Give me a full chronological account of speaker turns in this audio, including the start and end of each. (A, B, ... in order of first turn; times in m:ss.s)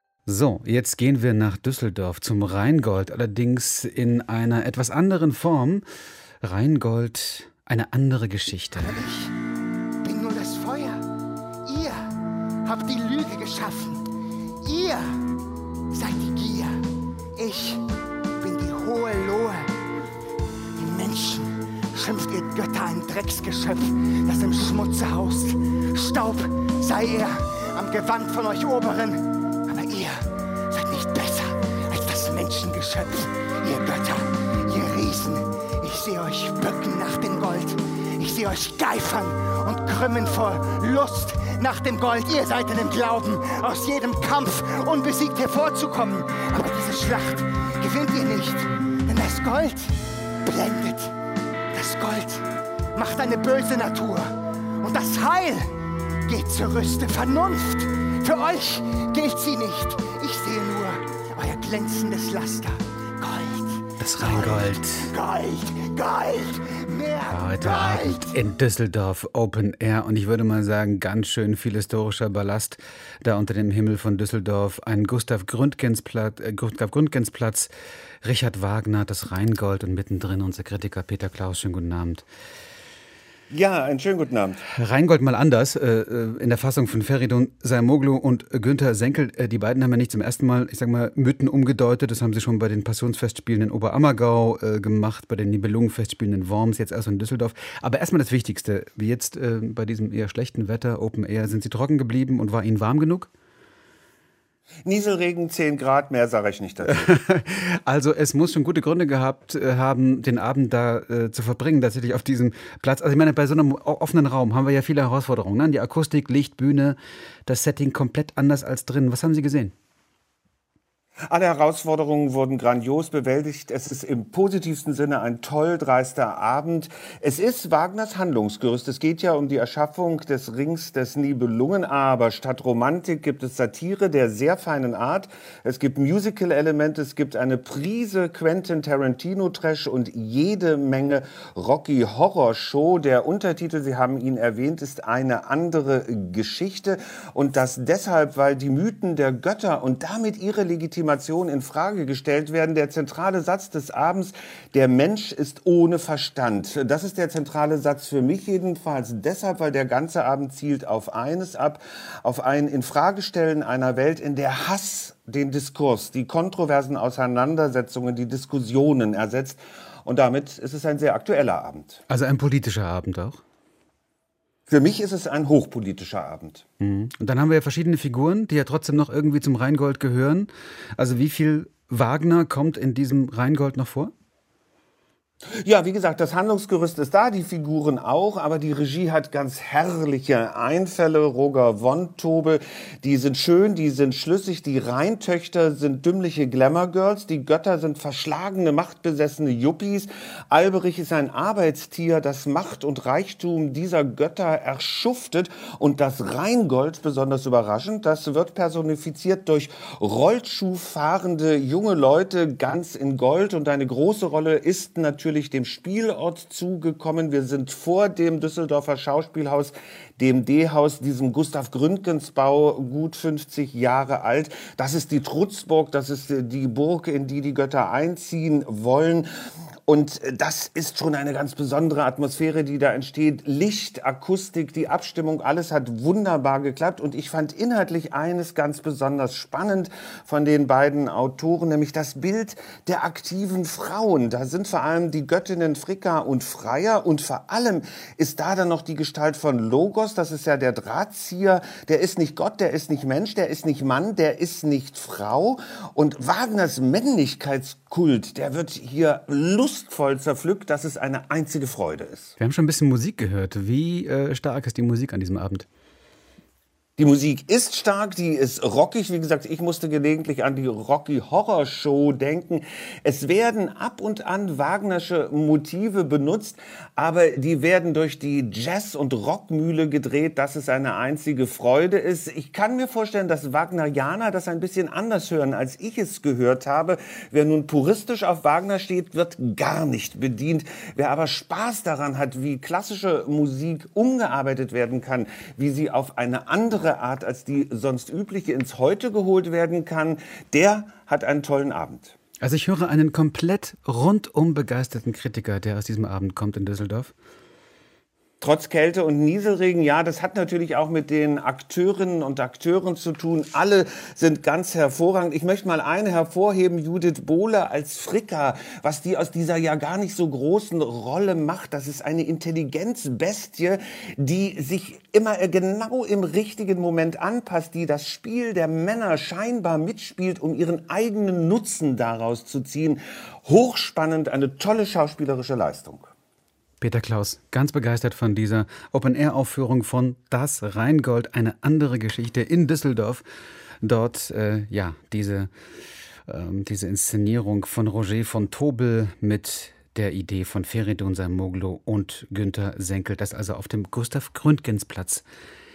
0:00.3-0:05.8 A
0:06.4-0:09.0 A
0:08.8-0:09.3 B
0:10.0-0:11.0 B
0:11.6-0:15.3 B
0:15.9-0:17.8 B
0:18.4-0:19.8 B
0:20.8-0:51.2 B
0:51.7-1:08.3 B
1:04.0-1:05.1 A
1:07.3-1:17.7 A
1:18.2-1:22.2 A
1:23.5-1:24.6 C
1:24.8-1:43.3 A
1:44.9-1:47.1 C
1:46.9-1:59.7 A
2:01.3-2:52.0 C
2:52.1-2:53.4 A
2:54.7-2:56.6 C
2:56.8-3:04.1 A
3:05.6-3:49.3 C
3:49.9-4:22.4 C
4:22.4-4:25.7 A
4:27.0-5:02.1 C
5:02.4-5:07.1 A
5:08.4-5:36.1 C
5:36.8-5:43.2 A
5:43.8-5:45.5 A
5:46.3-5:55.2 A